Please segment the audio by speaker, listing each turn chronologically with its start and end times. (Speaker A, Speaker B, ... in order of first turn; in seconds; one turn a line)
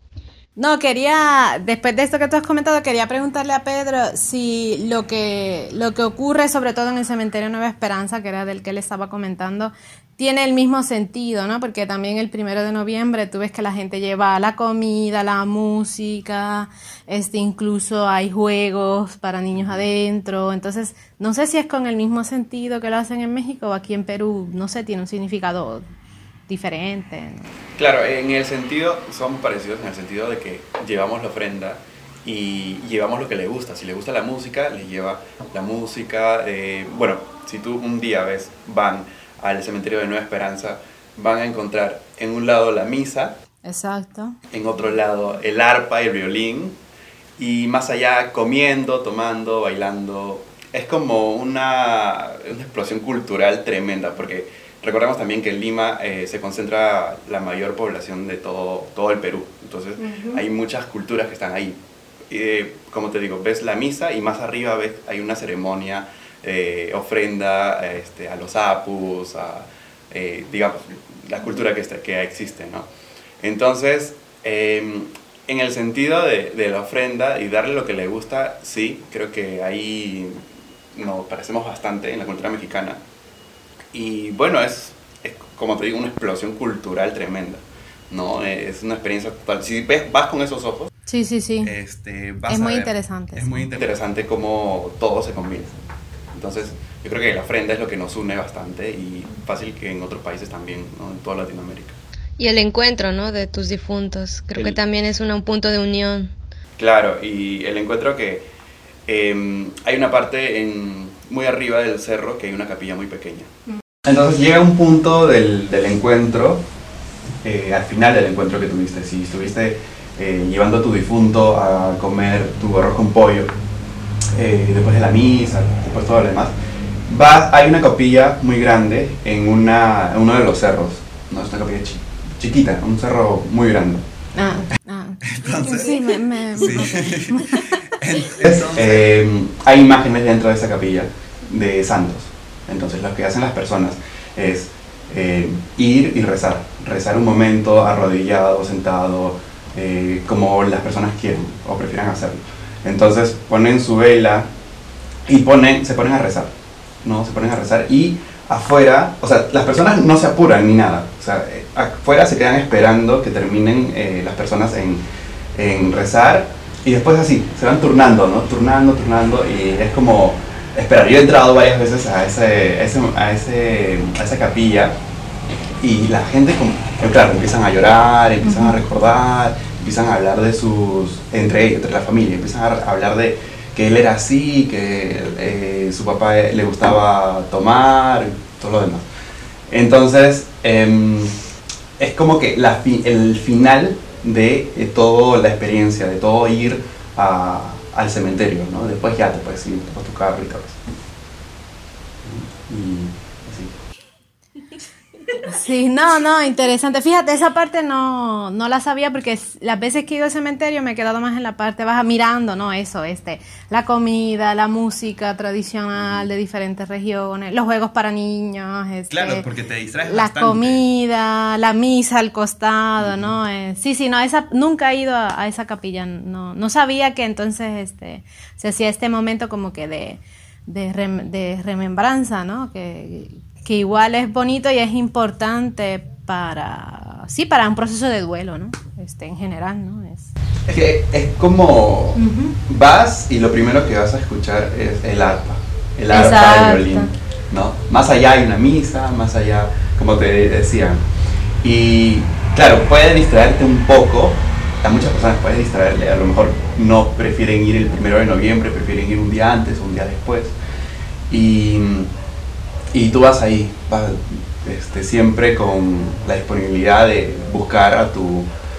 Speaker A: 0.6-25.9
Speaker B: 19.5-19.8
Speaker A: 26.5-27.5
Speaker B: 27.8-43.4
Speaker A: 43.6-44.4
Speaker B: 44.5-46.8
Speaker B: 47.4-61.8
Speaker A: 60.0-60.4
Speaker B: 62.3-72.9
Speaker B: 73.4-83.0
Speaker B: 83.9-90.9
Speaker A: 91.0-91.7
Speaker B: 91.6-95.7
Speaker A: 92.5-93.7
Speaker B: 96.3-102.0
Speaker C: 102.4-106.3
Speaker B: 106.8-108.5
Speaker B: 109.0-113.5
Speaker B: 114.0-116.6
Speaker B: 117.4-123.5
Speaker B: 124.3-126.5
Speaker B: 127.1-134.0
Speaker A: 134.3-138.0
Speaker B: 135.2-154.5
Speaker B: 155.2-156.5
Speaker B: 157.0-165.0
Speaker B: 165.5-174.9
Speaker B: 175.8-189.0
Speaker A: 178.4-178.8
Speaker B: 189.7-191.4
Speaker B: 192.0-200.8
Speaker B: 202.2-203.8
Speaker A: 205.4-219.5
Speaker B: 219.1-220.8
Speaker A: 220.0-240.3
Speaker B: 223.0-223.3
Speaker B: 240.7-251.0
Speaker A: 242.2-242.6
Speaker A: 246.1-247.1
Speaker B: 251.6-260.5
Speaker B: 261.3-262.1
Speaker B: 262.9-268.5